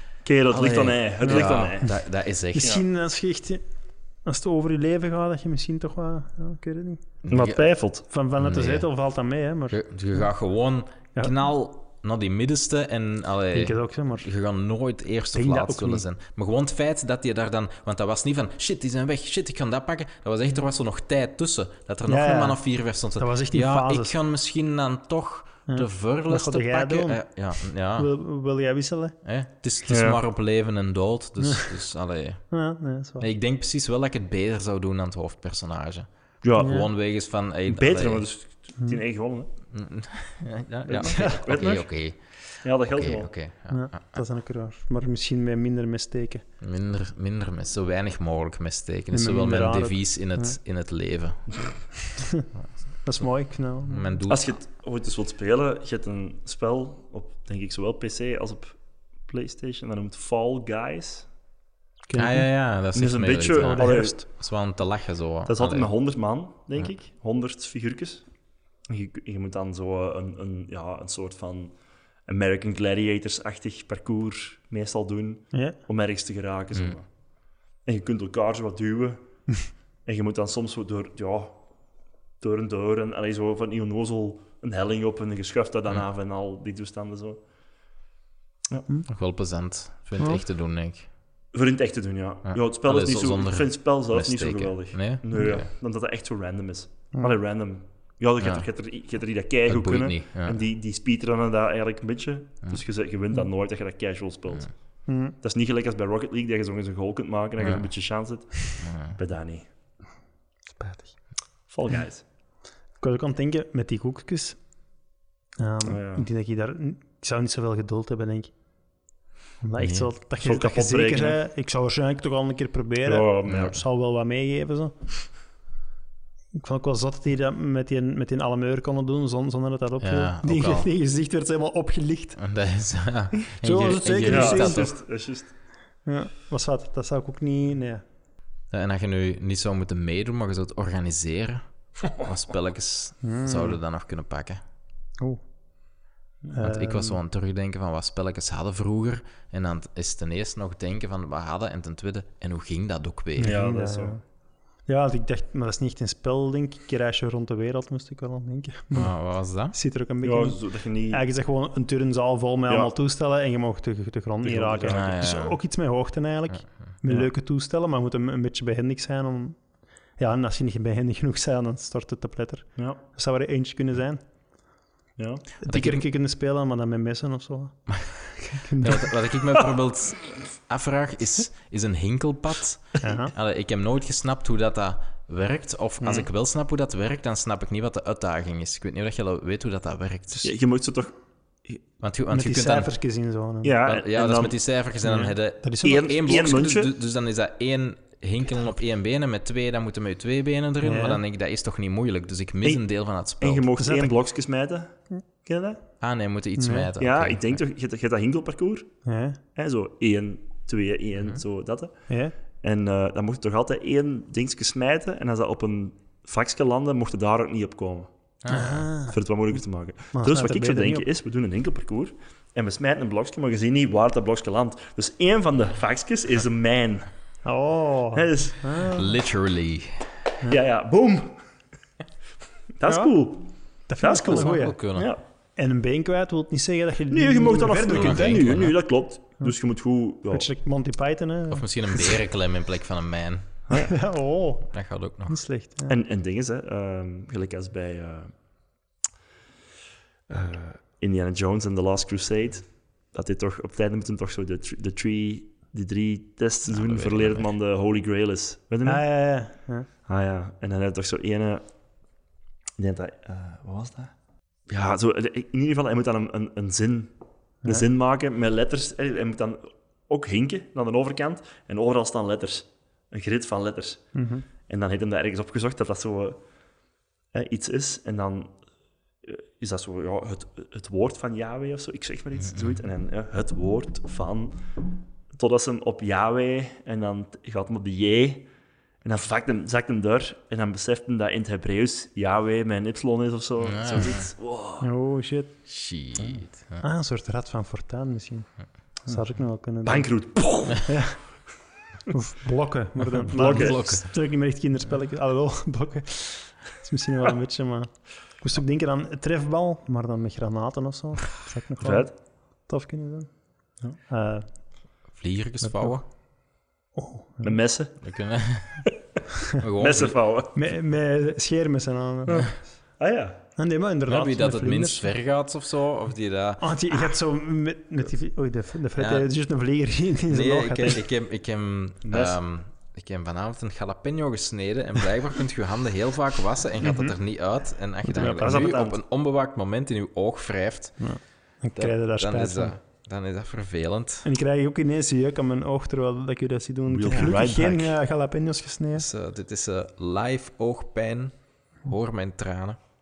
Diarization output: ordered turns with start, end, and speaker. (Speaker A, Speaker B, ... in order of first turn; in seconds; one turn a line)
Speaker A: 0.2-2.0
Speaker B: 0.5-2.7
Speaker C: 1.2-1.9
Speaker C: 2.5-7.2
Speaker A: 2.5-2.8
Speaker B: 7.2-7.7
Speaker A: 7.3-8.1
Speaker C: 8.0-10.4
Speaker B: 8.4-9.0
Speaker B: 9.7-28.1
Speaker C: 13.5-14.3
Speaker C: 15.3-16.1
Speaker C: 22.1-24.1
Speaker C: 25.7-29.1
Speaker B: 29.2-38.3
Speaker A: 29.9-30.2
Speaker C: 31.4-31.7
Speaker C: 32.5-33.2
Speaker A: 36.4-36.9
Speaker C: 36.6-36.9
Speaker A: 37.7-39.5
Speaker B: 39.7-44.0
Speaker A: 40.9-41.9
Speaker C: 41.0-41.8
Speaker A: 42.6-43.4
Speaker C: 43.7-46.4
Speaker B: 46.6-51.9
Speaker C: 49.1-50.6
Speaker B: 52.5-54.5
Speaker C: 53.0-54.2
Speaker A: 54.3-61.4
Speaker C: 62.1-62.5
Speaker B: 62.1-66.0
Speaker A: 62.9-64.2
Speaker C: 63.6-64.2
Speaker A: 65.5-87.5
Speaker B: 89.1-91.1
Speaker A: 91.5-109.7
Speaker B: 92.5-95.7
Speaker B: 98.4-98.7
Speaker B: 99.7-100.6
Speaker C: 105.1-105.3
Speaker B: 107.6-107.9
Speaker B: 108.8-109.2
Speaker C: 110.7-111.3
Speaker A: 111.7-112.3
Speaker C: 113.0-115.0
Speaker C: 115.6-119.0
Speaker A: 115.8-116.2
Speaker C: 119.6-125.1
Speaker B: 119.8-120.1
Speaker A: 120.4-121.4
Speaker A: 123.0-123.7
Speaker B: 123.5-123.8
Speaker C: 126.5-132.7
Speaker B: 130.0-130.9
Speaker B: 132.4-134.9
Speaker C: 133.5-135.1
Speaker A: 134.2-135.5
Speaker C: 136.0-138.0
Speaker B: 138.7-144.6
Speaker C: 143.2-143.8
Speaker C: 145.2-145.9
Speaker C: 146.5-147.2
Speaker B: 146.6-153.6
Speaker C: 153.3-174.8
Speaker A: 153.4-154.2
Speaker B: 158.9-159.8
Speaker A: 160.2-161.2
Speaker A: 164.4-165.1
Speaker B: 164.9-165.6
Speaker B: 166.5-166.9
Speaker A: 175.2-175.4
Speaker C: 175.6-179.1
Speaker B: 175.7-176.1
Speaker B: 178.8-190.5
Speaker C: 183.0-183.3
Speaker A: 190.4-191.8
Speaker B: 192.0-192.9
Speaker C: 192.3-193.7
Speaker A: 193.6-194.6
Speaker B: 193.8-203.7
Speaker C: 195.0-196.1
Speaker A: 195.8-196.9
Speaker C: 200.8-201.2
Speaker A: 202.6-205.8
Speaker C: 203.8-204.1
Speaker B: 206.0-207.6
Speaker C: 206.6-206.9
Speaker A: 207.0-218.1
Speaker C: 209.0-209.4
Speaker C: 212.1-212.3
Speaker B: 218.4-218.9
Speaker C: 218.5-219.1
Speaker A: 219.1-227.4
Speaker C: 220.1-221.1
Speaker C: 227.4-229.0
Speaker A: 228.1-228.8
Speaker B: 228.9-230.1
Speaker A: 230.5-231.5
Speaker A: 232.8-235.2
Speaker C: 232.8-238.8
Speaker B: 234.3-235.1
Speaker A: 237.1-240.4
Speaker B: 237.9-238.8
Speaker C: 240.3-242.1
Speaker B: 241.5-243.6
Speaker A: 243.7-243.9
Speaker C: 243.7-245.9
Speaker B: 244.7-245.5
Speaker A: 245.9-248.4
Speaker A: 250.3-262.1
Speaker B: 256.7-257.5
Speaker C: 258.8-259.9
Speaker A: 262.8-276.7
Speaker C: 274.1-274.4
Speaker A: 277.3-278.7
Speaker A: 279.2-284.7
Speaker A: 285.3-294.9
Speaker B: 293.6-294.3
Speaker C: 294.8-295.6
Speaker B: 295.7-296.8
Speaker C: 296.8-301.6
Speaker A: 299.7-301.2
Speaker C: 302.1-314.9
Speaker B: 303.0-304.1
Speaker A: 303.3-303.9
Speaker A: 311.8-312.1
Speaker B: 315.1-316.1
Speaker C: 315.6-317.6
Speaker A: 317.4-318.6
Speaker B: 318.0-318.9
Speaker B: 319.6-320.2
Speaker A: 319.8-320.5
Speaker C: 320.5-323.0
Speaker A: 322.2-323.5
Speaker C: 323.6-325.1
Speaker B: 324.1-327.2
Speaker C: 326.6-331.0
Speaker B: 329.0-329.3
Speaker B: 330.3-344.2
Speaker A: 332.1-332.4
Speaker C: 336.8-338.7
Speaker A: 338.2-339.0
Speaker C: 341.0-342.7
Speaker C: 344.2-349.0
Speaker A: 346.9-347.9
Speaker B: 348.9-352.8